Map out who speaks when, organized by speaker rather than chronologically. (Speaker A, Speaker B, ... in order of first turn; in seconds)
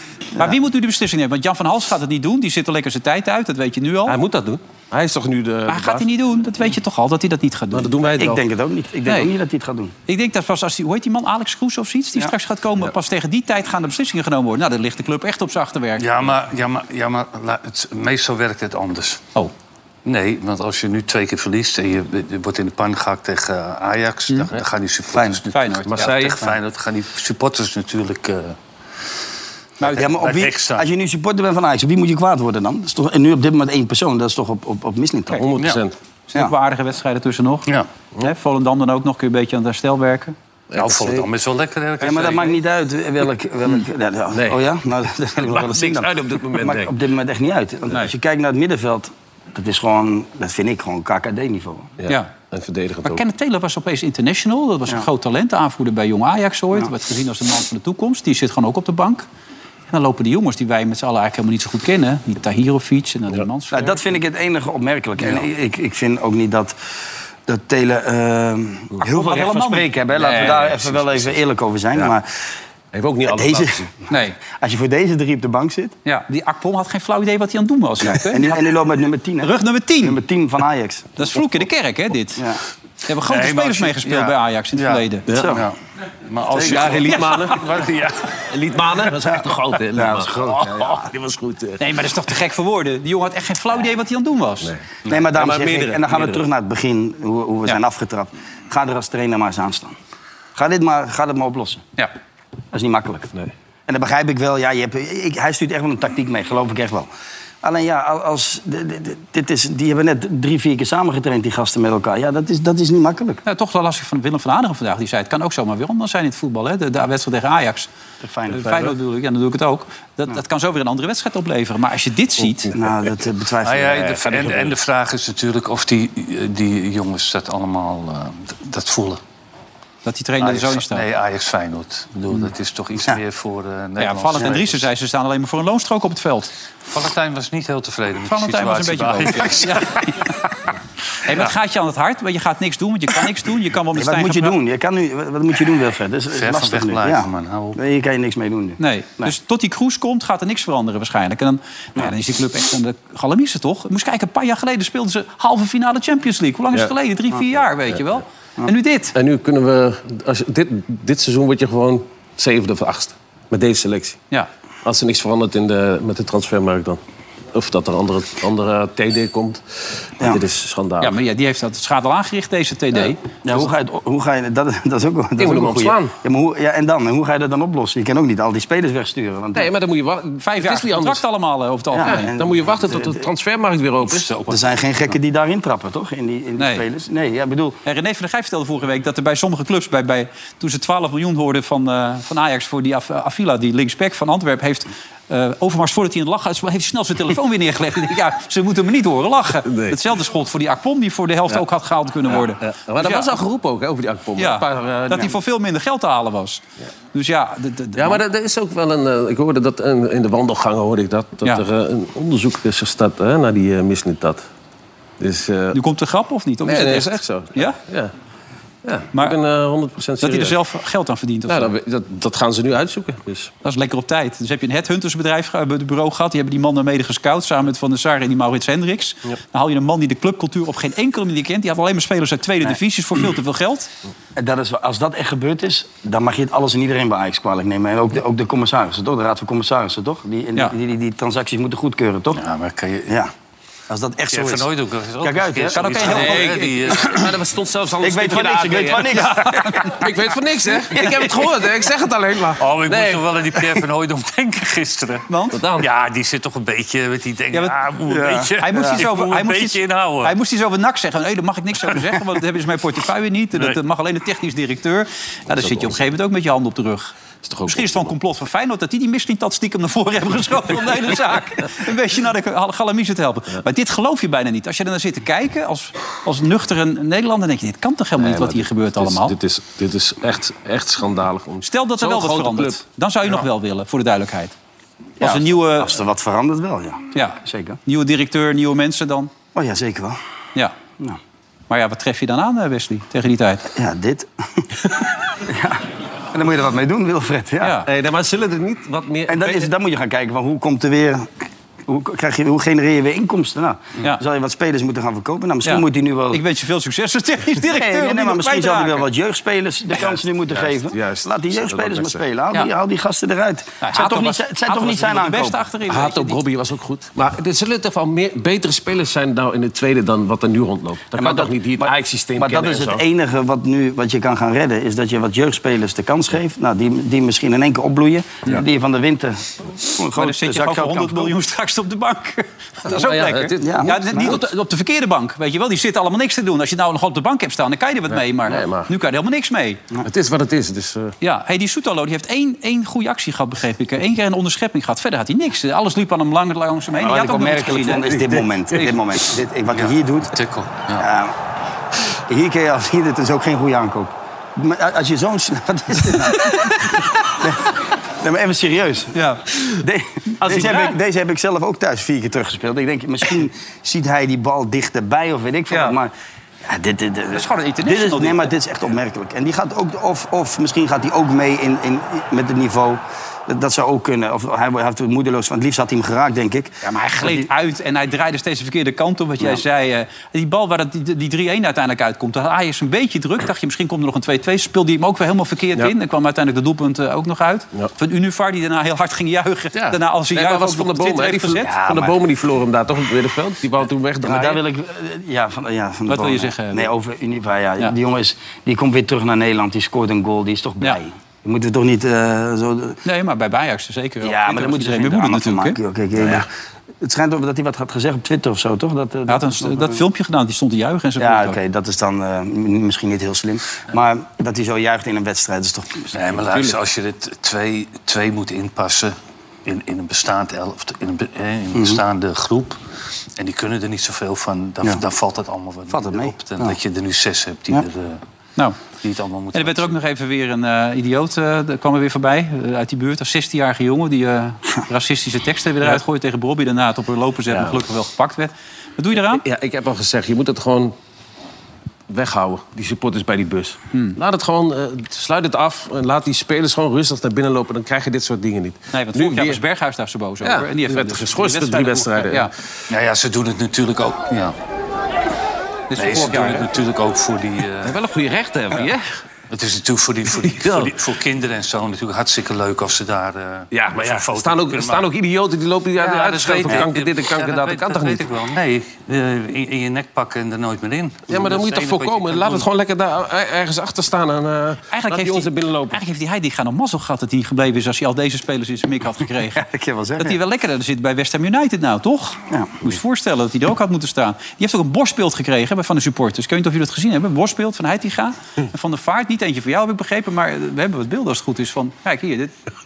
Speaker A: 0.4-4.2, 5.7-8.0, 10.1-16.3, 25.5-26.4, 36.3-40.3, 53.0-59.2, 59.9-64.1, 69.0-69.9, 74.1-74.4, 76.0-78.6, 79.4-80.2, 81.2-82.5, 83.1-85.3, 91.8-94.7, 113.5-117.9, 118.5-122.7, 130.1-131.0, 134.0-136.5, 138.3-140.3, 141.2-144.6, 148.8-159.2, 171.0-173.3, 180.4-182.3, 186.6-186.8, 187.8-203.3, 204.4-206.6, 207.1-208.2, 215.7-217.8, 220.2-221.7, 223.6-233.9, 245.7-246.5, 249.2-249.7, 255.3-255.6, 258.6-267.1, 267.7-279.4, 281.6-284.5, 285.2-285.9, 287.1-289.3, 291.7-293.7, 297.6-297.9, 305.6-309.1, 313.8-316.4, 330.1-339.8, 341.2-348.1, 359.1-359.4, 367.3-368.5, 376.8-391.8, 396.1-396.9, 403.1-405.8, 409.3-411.6, 429.5-439.4, 448.9-452.5, 455.9-456.7, 474.9-479.6, 480.2-492.5
Speaker B: 4.1-6.1, 7.7-8.4, 25.9-26.4, 35.4-36.0, 40.7-41.3, 44.3-44.6, 45.4-46.9, 52.0-53.2, 70.2-71.4, 72.9-73.9, 86.6-87.7, 88.5-91.9, 95.3-96.4, 122.4-122.9, 124.2-124.7, 159.1-164.2, 164.8-167.0, 167.5-171.2, 175.4-176.1, 179.6-181.2, 182.0-184.3, 199.7-200.0, 202.3-205.3, 208.0-214.5, 215.2-215.8, 216.7-218.1, 218.8-220.6, 221.5-223.5, 246.1-249.2, 249.9-253.2, 255.5-255.9, 265.6-265.9, 267.4-268.1, 278.2-282.8, 297.8-299.7, 310.5-312.2, 315.9-323.0, 332.9-334.4, 338.1-338.9, 340.0-341.1, 348.0-348.4, 360.4-361.0, 390.3-394.6, 406.2-406.5, 437.5-437.8, 439.1-440.9, 442.1-449.6, 450.4-452.5, 457.8-459.1, 460.4-460.9, 463.7-468.2, 471.3-476.0
Speaker C: 8.1-9.9, 25.1-25.4, 29.8-35.4, 42.0-51.9, 63.7-66.7, 67.5-72.5, 73.3-76.0, 78.0-81.1, 85.3-85.7, 86.5-87.0, 89.2-91.1, 95.1-100.0, 100.6-101.8, 102.7-103.3, 103.9-107.1, 107.6-113.4, 118.2-118.9, 122.7-124.3, 143.9-149.3, 173.4-179.7, 181.9-183.3, 184.4-187.8, 234.4-242.4, 243.1-243.3, 243.9-244.7, 245.2-246.2, 248.0-250.1, 250.6-251.5, 258.1-259.0, 285.2-287.8, 289.5-290.2, 293.7-294.7, 295.4-297.8, 299.3-301.3, 301.9-306.4, 307.7-315.6, 321.1-331.4, 333.6-334.4, 346.9-350.3, 351.0-351.3, 352.3-366.1, 366.6-377.5, 391.7-392.2, 394.2-403.0, 404.2-406.5, 407.0-410.0, 411.2-416.2, 421.7-422.0, 425.9-426.8, 479.5-480.4, 482.5-482.8
Speaker D: 16.0-19.2, 20.1-28.6, 29.8-30.9, 40.8-42.6, 83.3-85.8, 86.3-88.4, 123.6-129.2, 130.4-134.9, 136.9-140.1, 146.3-147.8, 184.1-184.6, 242.3-243.1, 244.3-247.3, 252.6-255.3, 255.8-260.3, 349.7-351.1, 416.1-422.8, 423.4-428.2, 429.0-429.9, 452.9-454.6, 456.0-458.0, 459.5-465.1, 466.0-472.7